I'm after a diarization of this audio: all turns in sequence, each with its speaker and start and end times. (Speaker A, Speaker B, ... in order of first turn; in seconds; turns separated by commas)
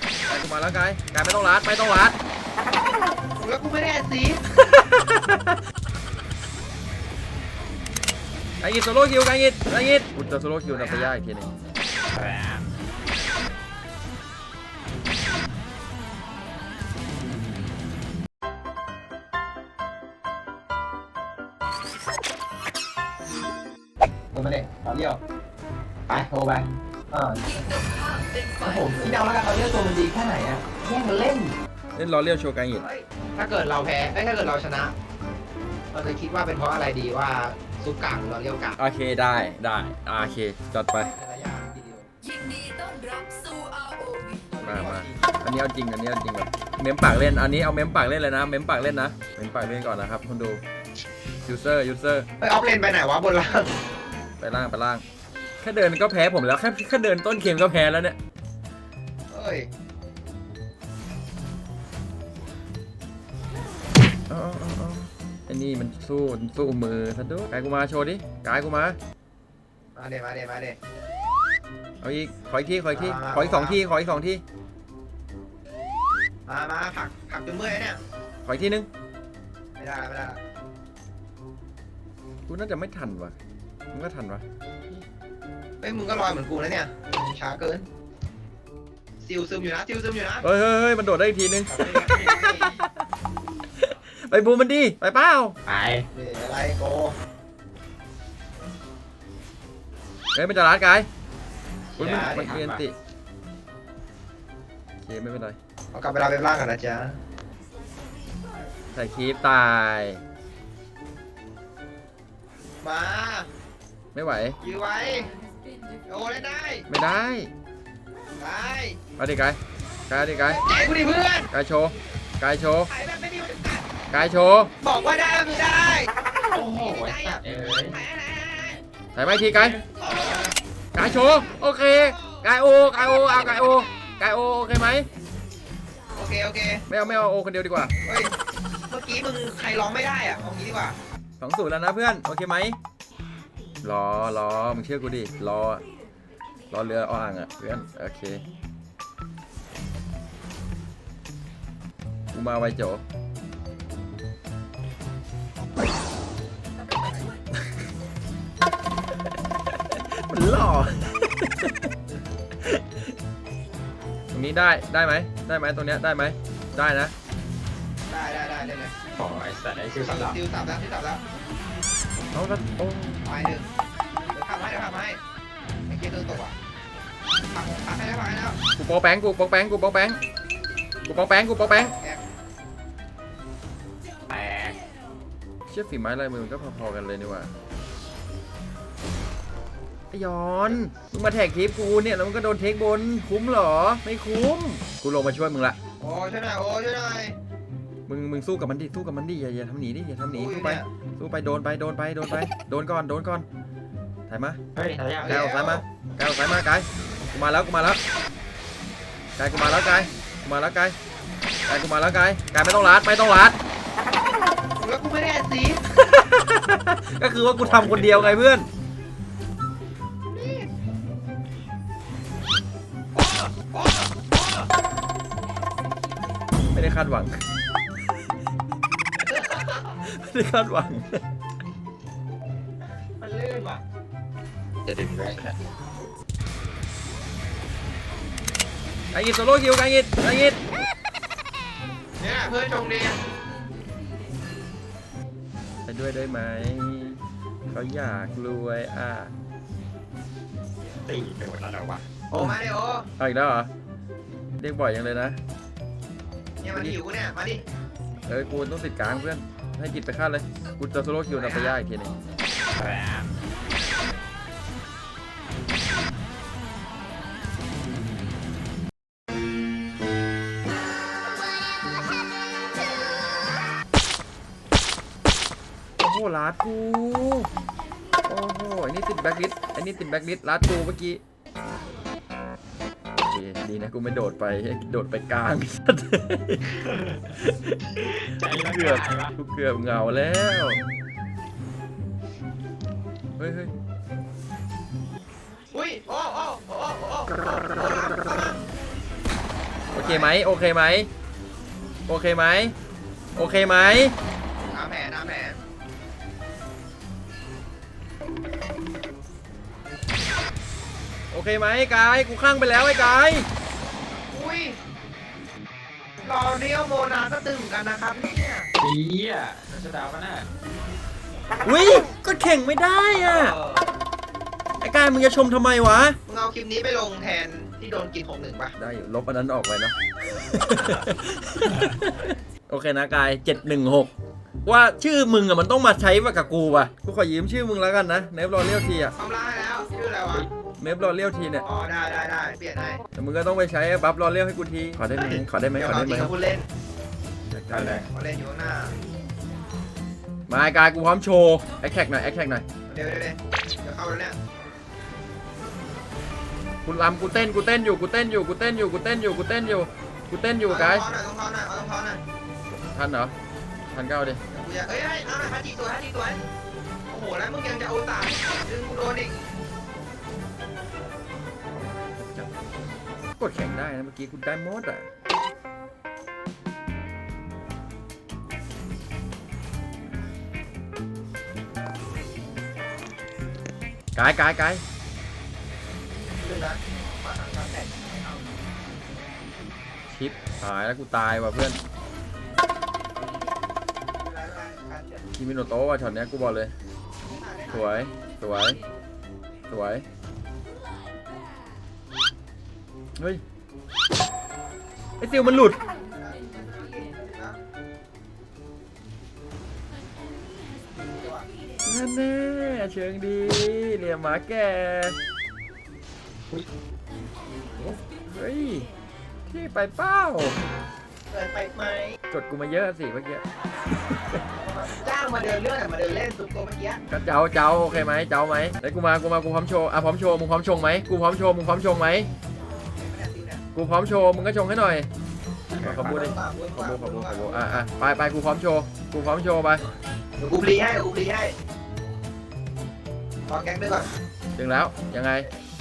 Speaker A: 0.3-2.2, Speaker B: 3.4-4.4, Speaker A: 4.5-5.6, Speaker A: 8.6-11.5, Speaker B: 10.7-11.1, Speaker C: 12.1-12.7, Speaker B: 24.3-25.2, Speaker B: 26.1-27.7, Speaker D: 27.6-28.9, Speaker B: 28.6-31.6, Speaker A: 31.9-32.9, Speaker B: 32.7-34.9, Speaker B: 35.9-38.8, Speaker A: 38.8-41.1, Speaker B: 41.0-42.1, Speaker D: 42.2-44.5, Speaker B: 44.5-45.3, Speaker A: 44.6-50.6, Speaker A: 51.4-52.3, Speaker B: 52.4-53.7, Speaker A: 54.4-55.0, Speaker A: 55.6-58.2, Speaker B: 59.3-59.7, Speaker A: 64.3-69.0, Speaker B: 70.0-70.8, Speaker A: 72.0-74.4, Speaker B: 72.9-73.8, Speaker B: 76.5-78.0, Speaker A: 78.5-78.9, Speaker B: 79.8-80.4, Speaker A: 82.5-83.3, Speaker A: 83.9-84.4, Speaker B: 85.8-87.9, Speaker B: 89.2-90.4, Speaker A: 90.4-93.0, Speaker B: 91.7-92.6, Speaker C: 91.7-92.6, Speaker A: 93.8-95.6, Speaker C: 95.7-96.1, Speaker B: 96.1-97.2, Speaker A: 100.3-101.1, Speaker C: 102.0-102.8, Speaker A: 102.0-103.0, Speaker B: 102.0-102.5, Speaker A: 105.0-105.6, Speaker B: 105.9-107.2, Speaker A: 108.9-110.2, Speaker B: 112.8-113.5, Speaker A: 114.1-114.6, Speaker B: 114.6-115.3, Speaker B: 116.1-116.9, Speaker A: 116.9-117.5, Speaker B: 118.4-119.0, Speaker A: 119.2-120.6, Speaker B: 120.4-121.5, Speaker A: 121.5-122.9, Speaker B: 122.9-123.9, Speaker A: 124.1-124.7, Speaker B: 124.8-126.1, Speaker C: 126.5-128.0, Speaker B: 126.8-128.8, Speaker A: 129.1-129.8, Speaker C: 129.5-130.0, Speaker B: 129.9-130.5, Speaker A: 130.9-135.1, Speaker B: 131.9-132.4, Speaker B: 136.1-137.2, Speaker A: 136.9-137.9, Speaker B: 138.0-138.3, Speaker B: 138.9-141.0, Speaker A: 141.4-142.8, Speaker A: 143.8-145.8, Speaker A: 146.7-148.4, Speaker A: 152.3-153.0, Speaker B: 156.9-157.3, Speaker A: 159.8-161.9, Speaker A: 162.6-163.1, Speaker A: 164.3-167.1, Speaker B: 168.1-168.9, Speaker C: 169.2-170.4, Speaker B: 170.0-171.2, Speaker A: 172.3-173.2, Speaker B: 173.2-175.2, Speaker B: 175.9-176.6, Speaker B: 177.4-178.6, Speaker A: 178.8-180.2, Speaker A: 181.1-181.9, Speaker B: 181.8-182.2, Speaker C: 184.3-184.8, Speaker A: 185.7-187.5, Speaker A: 190.1-195.8, Speaker B: 190.6-191.0, Speaker B: 196.0-197.3, Speaker A: 198.1-203.5, Speaker B: 200.3-200.9, Speaker A: 204.3-204.6, Speaker C: 204.8-205.4, Speaker B: 205.2-205.8, Speaker A: 205.2-208.0, Speaker A: 209.4-211.0, Speaker B: 209.5-210.1, Speaker A: 211.7-213.6, Speaker B: 214.8-215.8, Speaker A: 215.9-218.7, Speaker C: 217.6-218.4, Speaker B: 220.3-220.7, Speaker B: 223.2-224.7, Speaker A: 226.7-227.4, Speaker B: 229.3-229.8, Speaker A: 229.9-231.2, Speaker B: 233.2-233.8, Speaker C: 234.8-235.6, Speaker A: 239.1-240.6, Speaker B: 242.2-243.2, Speaker A: 245.9-249.3, Speaker C: 251.1-252.1, Speaker A: 252.3-252.6, Speaker B: 252.3-253.1, Speaker A: 253.2-253.7, Speaker A: 254.6-255.4, Speaker B: 256.6-257.6, Speaker A: 258.3-262.1, Speaker B: 261.4-261.8, Speaker C: 262.8-263.3, Speaker A: 276.0-277.5, Speaker A: 278.3-281.2, Speaker A: 283.2-290.8, Speaker C: 286.8-287.3, Speaker C: 288.0-289.4, Speaker A: 293.4-293.7, Speaker B: 295.7-298.6, Speaker A: 299.9-301.1, Speaker B: 299.9-300.3, Speaker A: 302.1-302.8, Speaker A: 303.4-304.1, Speaker B: 304.7-305.6, Speaker A: 311.3-313.5, Speaker B: 314.3-314.8, Speaker B: 316.2-318.7, Speaker C: 318.8-320.5, Speaker A: 321.6-323.6, Speaker B: 323.2-324.0, Speaker A: 324.8-326.2, Speaker B: 326.3-328.7, Speaker A: 328.8-334.1, Speaker A: 334.7-339.1, Speaker B: 339.2-340.5, Speaker A: 340.8-341.7, Speaker B: 341.6-343.0, Speaker A: 343.1-346.3, Speaker B: 345.1-346.7, Speaker A: 347.5-348.0, Speaker C: 347.7-348.1, Speaker B: 348.1-348.9, Speaker A: 350.5-352.6, Speaker B: 352.9-354.4, Speaker A: 356.9-361.1, Speaker B: 360.7-362.2, Speaker A: 362.8-363.3, Speaker A: 363.9-364.4, Speaker B: 364.5-366.5, Speaker B: 367.1-369.4, Speaker A: 372.2-372.5, Speaker A: 373.4-375.1, Speaker A: 384.2-384.8, Speaker B: 386.2-388.5, Speaker A: 390.1-391.8, Speaker B: 394.2-395.2, Speaker A: 395.4-396.7, Speaker B: 397.2-398.1, Speaker A: 397.7-398.8, Speaker A: 399.7-400.1, Speaker A: 405.2-405.8, Speaker B: 405.2-407.6, Speaker B: 411.1-411.5, Speaker A: 411.8-415.2, Speaker A: 418.3-418.9, Speaker A: 419.5-420.6, Speaker B: 421.3-422.2, Speaker A: 422.3-423.4, Speaker A: 424.1-424.4, Speaker B: 424.5-427.0, Speaker A: 427.1-432.3, Speaker B: 432.9-433.6, Speaker A: 433.8-435.1, Speaker C: 435.7-436.2, Speaker A: 435.8-439.8, Speaker B: 436.0-437.9, Speaker B: 440.4-441.5, Speaker B: 443.5-444.1, Speaker A: 444.6-445.5